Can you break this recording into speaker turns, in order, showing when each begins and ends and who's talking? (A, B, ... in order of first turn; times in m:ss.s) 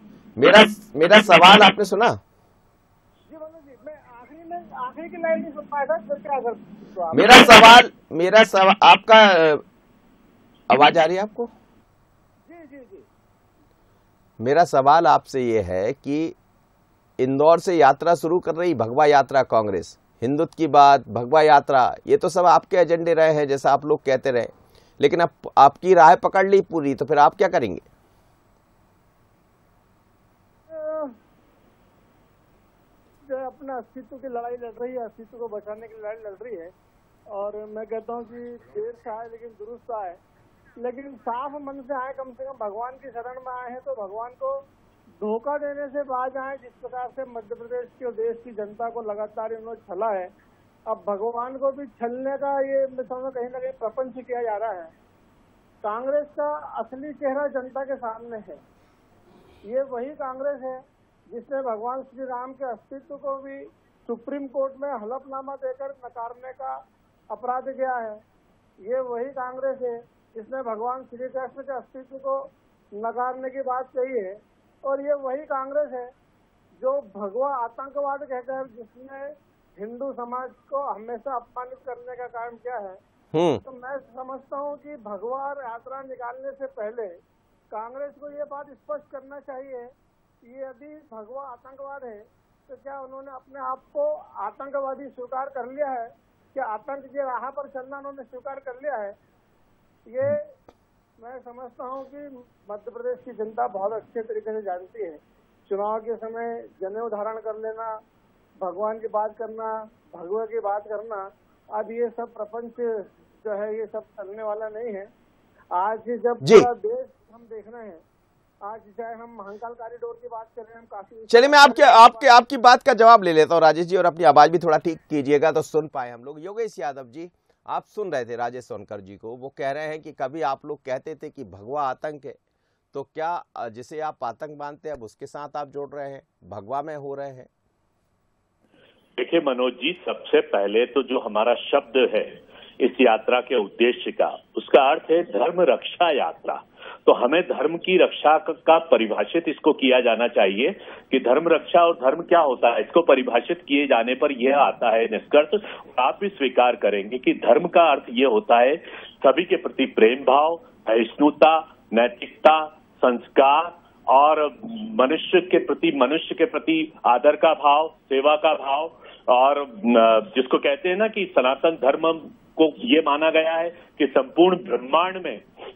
0:00.4-0:02.2 A
0:03.3-0:07.5 B
0:07.1-0:09.6 A
0:10.7-0:11.5 A
0:12.4-0:13.0 B
0:14.4-0:16.3 A
0:17.2-0:27.8 A
0:30.7-0:31.1 B
0:33.3-0:36.7 B
0:37.3-0:40.2 B
0:40.8-0:44.6 B
0:45.2-0:50.3 B
0:50.9-0:54.9 B
0:55.8-0:58.6 B
0:59.6-1:06.8 B
1:07.3-1:08.2 B
1:08.8-1:16.1 B
1:16.8-1:23.0 B
1:23.3-1:23.6 A
1:23.6-1:27.2 B
1:27.7-1:29.9 B
1:30.4-1:39.1 B
1:40.1-1:40.5 B
1:41.2-1:48.0 B
1:48.6-1:55.1 B
1:55.7-1:58.0 B
1:56.4-1:56.7 A
1:58.6-2:02.3 B
2:01.3-2:12.4 A
2:12.9-2:17.5 A
2:19.2-2:55.4 C